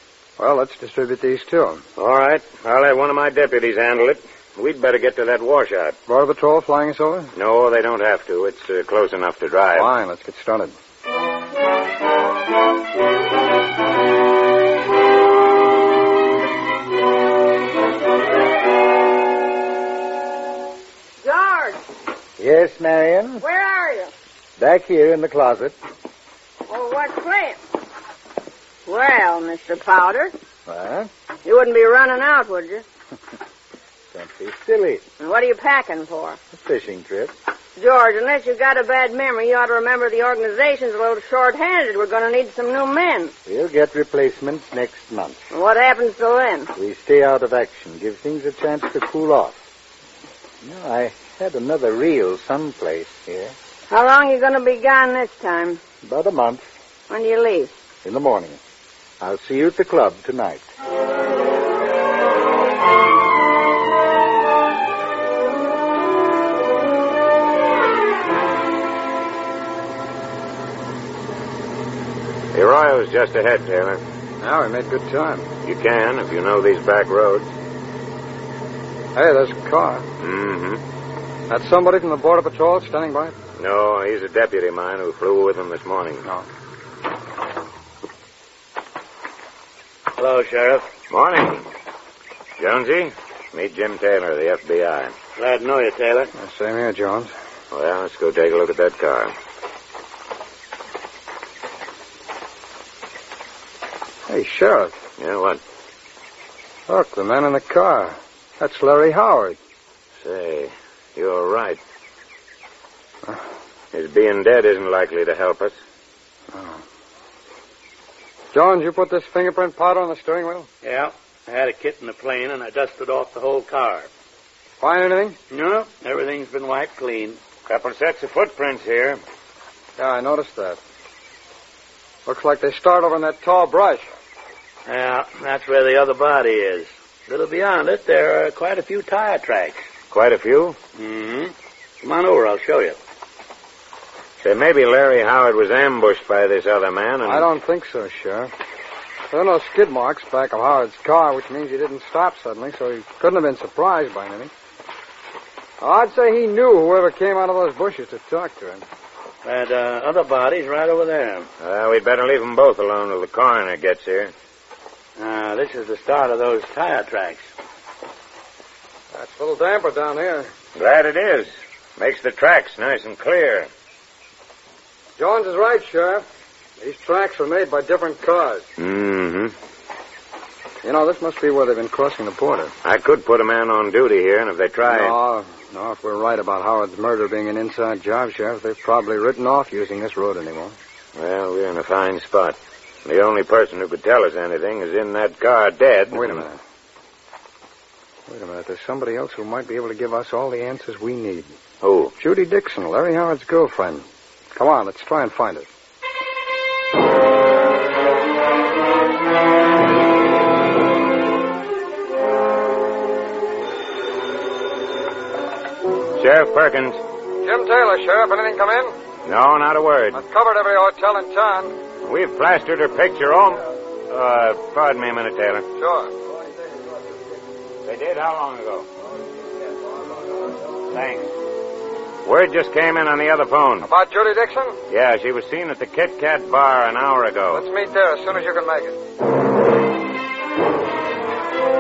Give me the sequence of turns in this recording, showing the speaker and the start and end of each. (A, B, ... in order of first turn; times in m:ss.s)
0:00.4-0:01.8 A
0:02.0-0:06.0 B
0:06.1-0:07.3 A
0:07.4-0:09.9 B
0:09.8-0:10.7 A
0:21.2-0:21.8 C
0:22.4-0:23.4 D
0:23.4-0:24.1 C
0:24.6-0:25.8 D
0:26.7-0:27.6 C
0:28.9-0:30.3 C
0:30.7-0:31.1 D
0:31.4-0:32.8 C
0:34.1-0:35.0 D
0:35.2-0:36.4 C
0:36.5-0:37.3 D
0:37.8-0:43.3 C
0:43.5-0:45.5 D
0:45.5-0:46.7 C
0:46.8-0:49.6 D
0:50.6-0:53.5 D
0:53.9-0:55.8 C
0:56.0-0:56.7 D
0:57.1-0:57.7 C
0:58.0-0:58.6 D
0:59.2-1:00.6 D
1:12.5-1:14.0 B
1:14.4-1:15.5 A
1:15.6-1:17.5 B
1:19.2-1:20.1 A
1:20.2-1:20.8 B
1:21.5-1:23.4 A
1:23.6-1:26.2 B
1:30.2-1:30.9 E
1:31.1-1:31.7 B
1:32.6-1:35.1 B
1:35.4-1:36.3 E
1:36.4-1:37.3 A
1:37.7-1:39.3 B
1:44.3-1:45.0 A
1:45.2-1:45.6 B
1:46.9-1:49.6 A
1:50.2-1:51.8 B
1:53.9-1:55.8 B
1:56.5-1:56.8 A
1:58.5-2:00.7 A
2:00.8-2:04.1 E
2:04.8-2:05.4 A
2:05.5-2:07.4 E
2:07.7-2:09.2 B
2:10.0-2:10.8 A
2:12.3-2:14.1 A
2:14.9-2:19.9 E
2:20.1-2:20.8 B
2:21.0-2:23.0 E
2:24.4-2:27.5 B
2:27.3-2:28.5 A
2:29.3-2:34.5 A
2:35.8-2:38.8 A
2:39.4-2:41.5 E
2:41.6-2:44.3 B
2:45.2-2:47.5 E
2:49.1-2:50.5 A
2:50.8-2:53.7 B
2:55.2-2:56.2 A
2:56.8-2:58.7 A
2:58.8-2:59.5 B
3:00.8-3:02.7 A
3:02.8-3:05.2 B
3:04.9-3:10.8 A
3:11.2-3:16.4 B
3:16.1-3:16.6 A
3:18.3-3:21.5 A
3:21.8-3:22.1 B
3:22.2-3:25.7 A
3:36.2-3:37.0 B
3:37.4-3:39.0 A
3:39.3-3:40.2 B
3:40.1-3:41.7 A
3:42.0-3:45.6 B
3:45.8-3:46.1 A
3:47.8-3:48.9 B
3:50.9-3:51.3 B
3:52.2-3:53.9 B
3:53.8-3:54.8 A
3:54.9-3:57.6 B
3:57.5-3:59.0 A